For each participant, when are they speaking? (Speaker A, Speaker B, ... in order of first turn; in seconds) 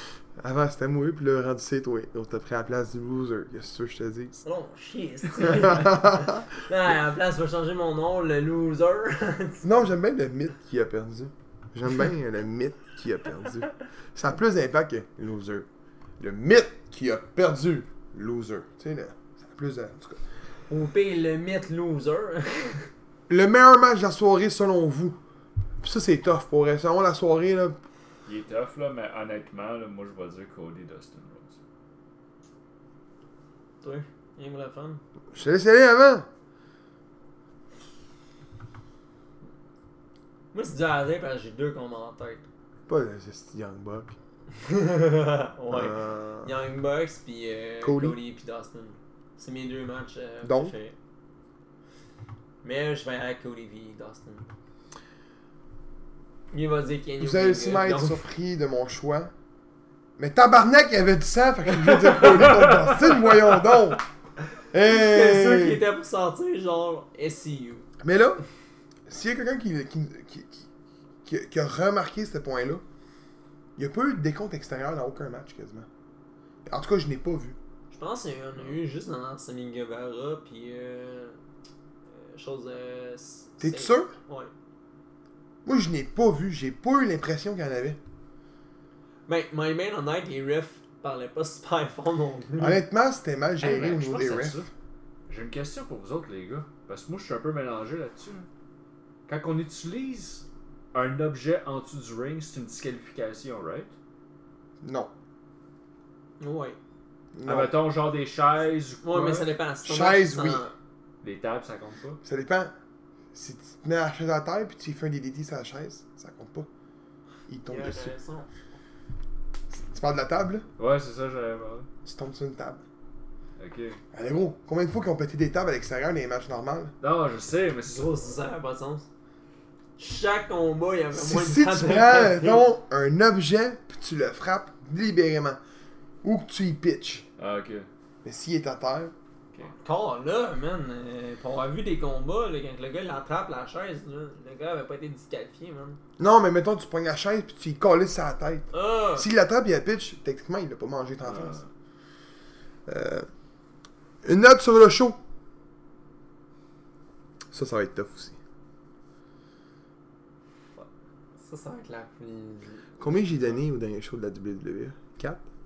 Speaker A: 0.4-4.4, 5.5-6.4, 9.6-15.7, 16.2-20.2, 23.3-25.2, 25.8-27.8, 35.3-36.3, 42.9-44.1, 45.7-46.5, 47.8-48.2, 50.4-50.7, 57.2-59.3, 60.2-64.0, 64.7-65.8, 68.0-68.4, 69.1-70.7, 71.2-72.8, 73.8-75.9, 76.7-77.6, 83.6-84.1, 85.6-88.0, 92.6-94.6, 104.8-105.1, 107.3-107.8, 109.8-110.6, 112.2-112.7, 113.3-116.7, 117.5-118.1, 119.7-120.6, 122.0-122.8, 124.1-126.9, 131.1-135.6, 136.2-137.3, 138.2-139.1, 146.2-151.6, 152.9-153.3, 154.2-155.2, 157.5-158.4, 163.0-165.4
Speaker B: 4.4-9.7, 20.7-22.9, 33.8-35.0, 40.5-42.4, 44.6-50.9, 52.6-54.5, 56.5-58.2, 64.8-67.9, 77.9-81.4, 82.1-84.5, 89.3-92.8, 106.4-106.8, 109.0-110.7, 117.7-118.5, 127.9-129.1, 130.0-132.7, 139.8-146.0, 148.7-149.3, 161.4-162.9
Speaker C: 28.2-31.6, 93.6-94.7, 95.3-98.5, 99.3-103.9, 107.4-109.5, 111.2-112.2, 120.8-121.9, 123.6-124.0, 127.0-128.1, 137.4-137.9, 151.2-151.7